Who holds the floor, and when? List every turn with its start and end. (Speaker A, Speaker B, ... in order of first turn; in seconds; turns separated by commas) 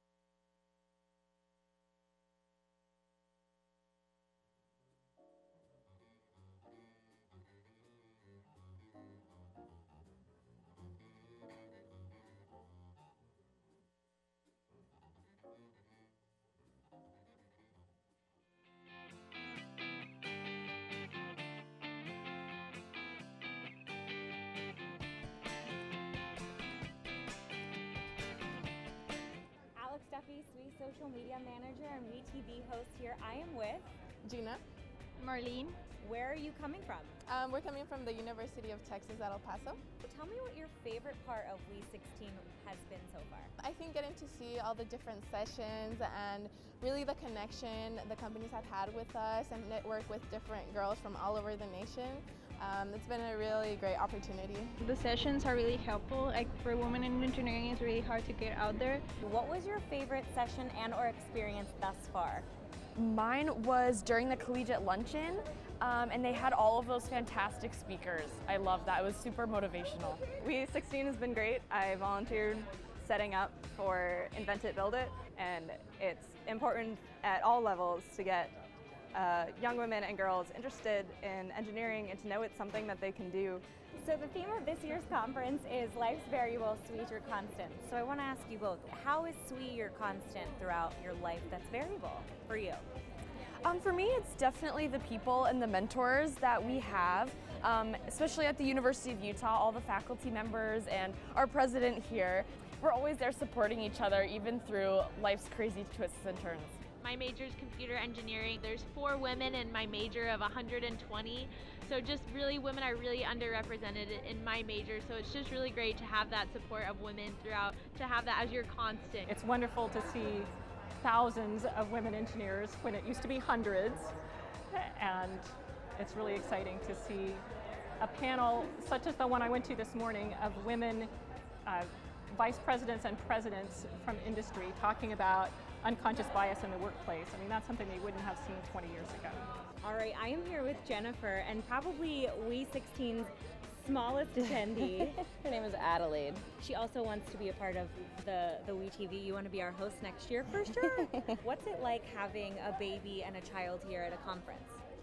Speaker A: 29.8-33.9, Speaker B: 34.2-34.6, Speaker C: 35.2-35.8, Speaker A: 36.0-37.1, Speaker B: 37.3-39.8, Speaker A: 40.0-43.5, Speaker B: 43.6-54.8, Speaker C: 54.8-59.1, Speaker A: 59.2-62.5, Speaker D: 63.0-67.2, Speaker E: 65.8-78.6, Speaker E: 79.1-83.6, Speaker A: 84.0-92.9, Speaker D: 93.6-106.8, Speaker F: 107.0-119.3, Speaker G: 119.3-120.5, Speaker G: 121.0-124.2, Speaker G: 124.7-127.4, Speaker G: 128.0-131.1, Speaker G: 131.7-139.5, Speaker A: 139.8-145.2, Speaker D: 144.4-146.4, Speaker A: 146.6-154.8